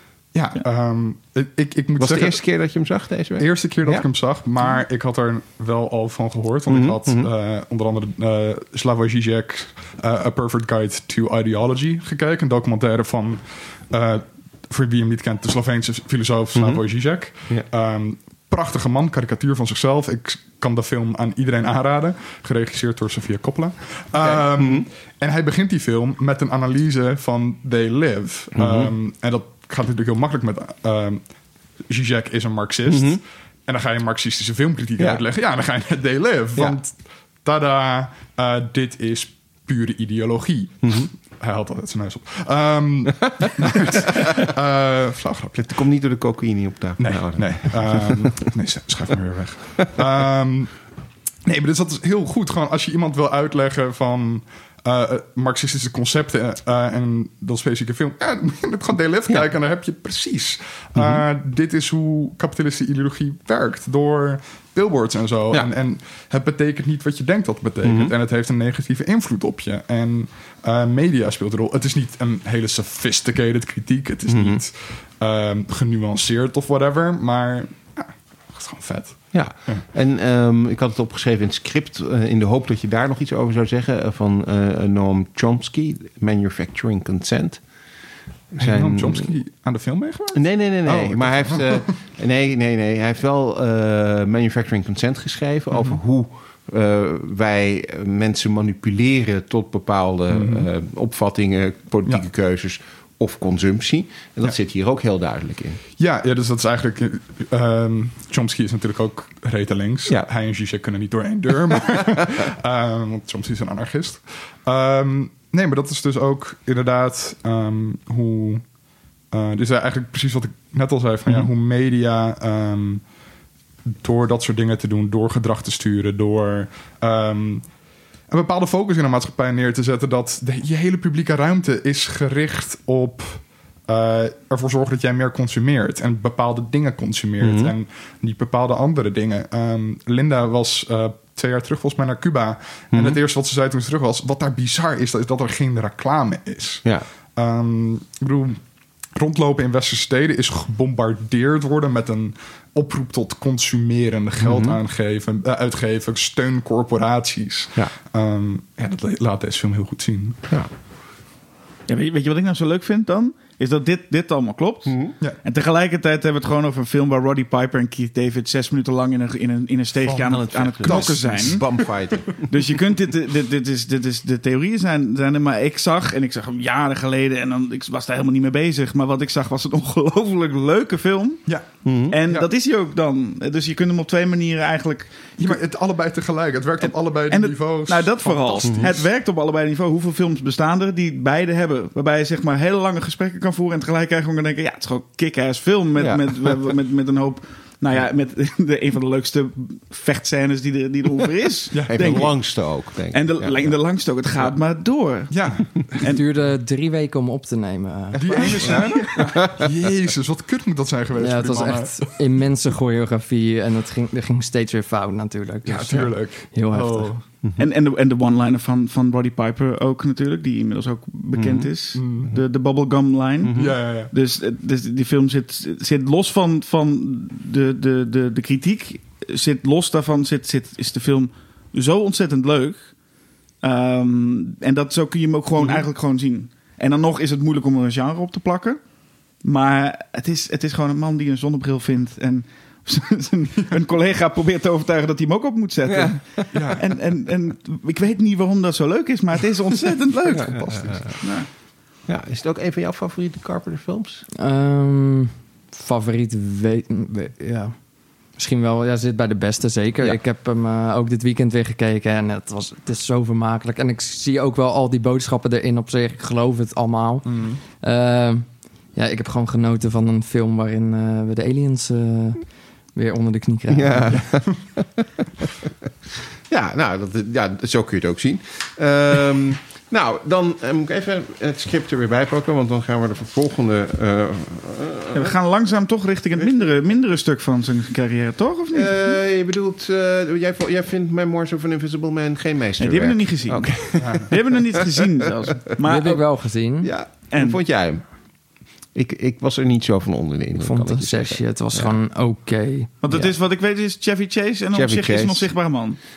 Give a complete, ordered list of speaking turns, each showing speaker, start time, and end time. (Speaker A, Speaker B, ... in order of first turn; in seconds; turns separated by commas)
Speaker A: 0.3-2.4, Speaker B: 2.0-4.1, Speaker A: 3.4-31.3, Speaker B: 6.7-7.3, Speaker B: 16.6-16.8, Speaker B: 24.2-24.9, Speaker B: 28.6-28.9, Speaker A: 31.9-45.8, Speaker B: 32.9-33.2, Speaker B: 40.8-41.1, Speaker B: 45.7-48.4, Speaker A: 47.0-50.8, Speaker A: 51.5-79.8, Speaker B: 61.0-61.2, Speaker B: 67.8-68.1, Speaker B: 74.3-74.6, Speaker B: 79.3-87.6, Speaker A: 88.6-91.9, Speaker B: 88.6-89.3, Speaker B: 90.3-105.8, Speaker A: 95.7-96.0, Speaker A: 100.3-100.7, Speaker A: 106.0-118.6, Speaker A: 119.3-123.0, Speaker A: 124.0-127.7, Speaker A: 128.3-146.8, Speaker B: 137.4-137.7, Speaker B: 142.9-143.2, Speaker A: 147.4-148.6, Speaker A: 149.2-160.4, Speaker B: 154.4-154.8, Speaker C: 161.9-171.7, Speaker B: 164.9-165.2, Speaker A: 170.1-171.7, Speaker B: 170.2-172.5, Speaker C: 172.5-181.5, Speaker B: 181.8-182.2, Speaker C: 182.1-185.6, Speaker A: 185.4-189.1, Speaker C: 186.8-202.4, Speaker B: 188.7-188.9, Speaker B: 196.0-196.6, Speaker A: 201.7-202.3, Speaker B: 201.8-203.8, Speaker C: 203.1-206.2, Speaker A: 205.3-206.1, Speaker D: 206.0-208.8, Speaker A: 208.2-212.0, Speaker C: 208.2-209.3, Speaker B: 208.3-209.8, Speaker D: 211.2-217.1, Speaker A: 215.7-217.2, Speaker C: 217.6-232.9, Speaker B: 221.3-221.7, Speaker A: 221.9-222.3, Speaker B: 223.4-223.8, Speaker A: 223.6-224.1, Speaker C: 233.6-238.8, Speaker B: 235.6-235.8, Speaker C: 239.4-251.5, Speaker B: 245.9-246.2, Speaker A: 246.5-246.8, Speaker A: 250.2-251.3, Speaker B: 250.3-251.2, Speaker B: 252.1-254.2, Speaker D: 254.4-257.8, Speaker D: 258.3-274.4, Speaker A: 267.3-267.6, Speaker B: 273.7-275.4, Speaker B: 276.5-285.3, Speaker C: 285.1-289.2, Speaker B: 288.7-295.6, Speaker C: 292.8-296.2, Speaker A: 294.0-294.3, Speaker D: 295.8-296.9, Speaker B: 296.8-298.0, Speaker C: 297.3-297.6, Speaker B: 298.9-302.0, Speaker D: 300.6-302.9, Speaker C: 303.0-306.0, Speaker B: 303.1-303.4, Speaker B: 304.7-305.5